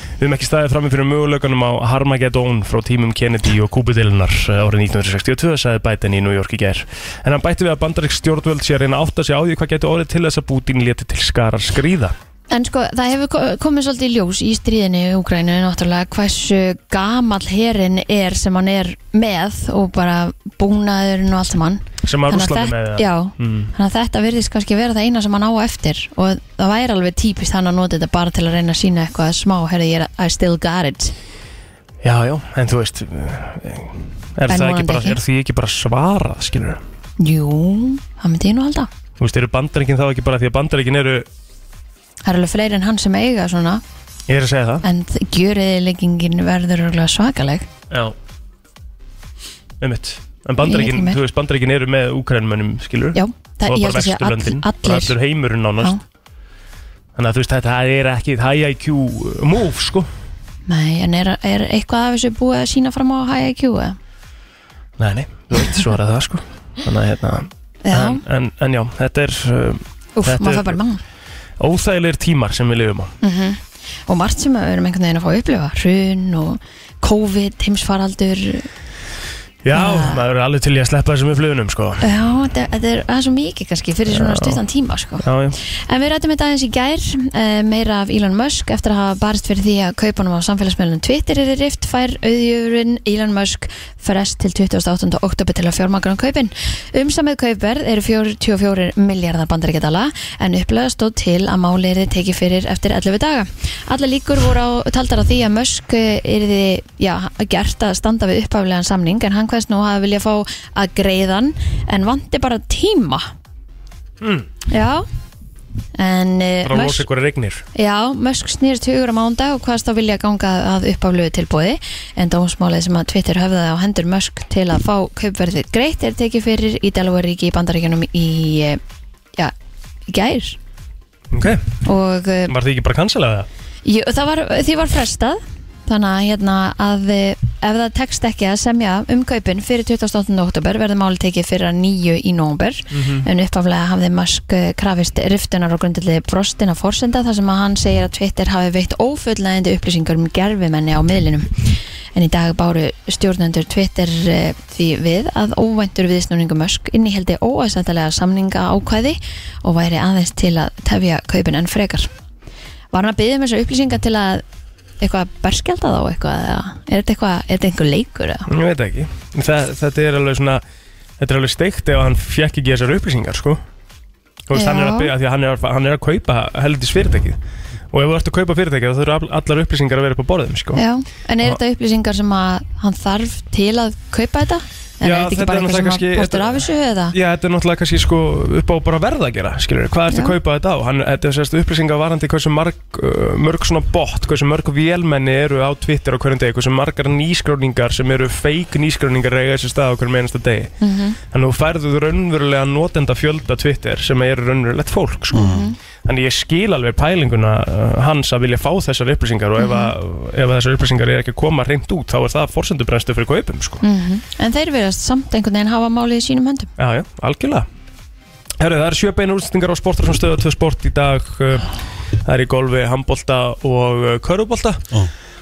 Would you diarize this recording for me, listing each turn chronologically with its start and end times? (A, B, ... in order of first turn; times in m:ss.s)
0:00.2-0:12.1 A
0:12.5-0:31.1 B
0:22.0-0:23.7 A
0:32.0-0:36.8 A
0:34.5-0:35.2 B
0:37.2-0:38.9 B
0:39.2-0:41.2 A
0:42.2-0:43.8 B
0:44.3-0:44.8 A
0:44.8-0:47.6 B
0:49.8-0:55.9 A
0:50.6-0:51.2 B
0:53.1-0:55.2 B
0:57.2-1:00.1 A
1:00.7-1:04.0 B
1:05.0-1:10.8 A
1:07.8-1:08.2 B
1:10.2-1:11.0 B
1:11.6-1:13.1 A
1:13.2-1:18.7 B
1:19.6-1:22.0 A
1:19.7-1:20.2 B
1:22.0-1:53.3 B
1:24.1-1:24.6 A
1:25.2-1:25.6 A
1:54.2-1:54.5 A
1:54.7-1:55.0 B
1:56.0-1:57.0 B
1:56.6-1:57.6 A
1:57.7-2:08.8 B
2:10.1-2:10.6 B
2:11.3-2:11.8 A
2:11.8-2:12.5 B
2:12.5-2:13.5 A
2:13.8-2:42.1 B
2:22.9-2:23.2 A
2:42.9-2:44.4 B
2:45.0-2:48.5 B
2:48.5-2:50.6 A
2:51.2-2:53.6 A
2:54.5-2:57.4 A
2:54.5-2:55.1 B
2:57.9-3:00.8 A
3:00.8-3:07.1 B
3:05.0-3:20.7 A
3:10.1-3:10.3 B
3:20.8-3:21.2 B
3:21.3-3:33.8 A
3:25.3-3:25.8 B
3:29.6-3:29.9 B
3:33.8-3:36.7 B
3:36.8-3:37.6 A
3:38.6-3:41.7 A
3:42.2-3:44.8 A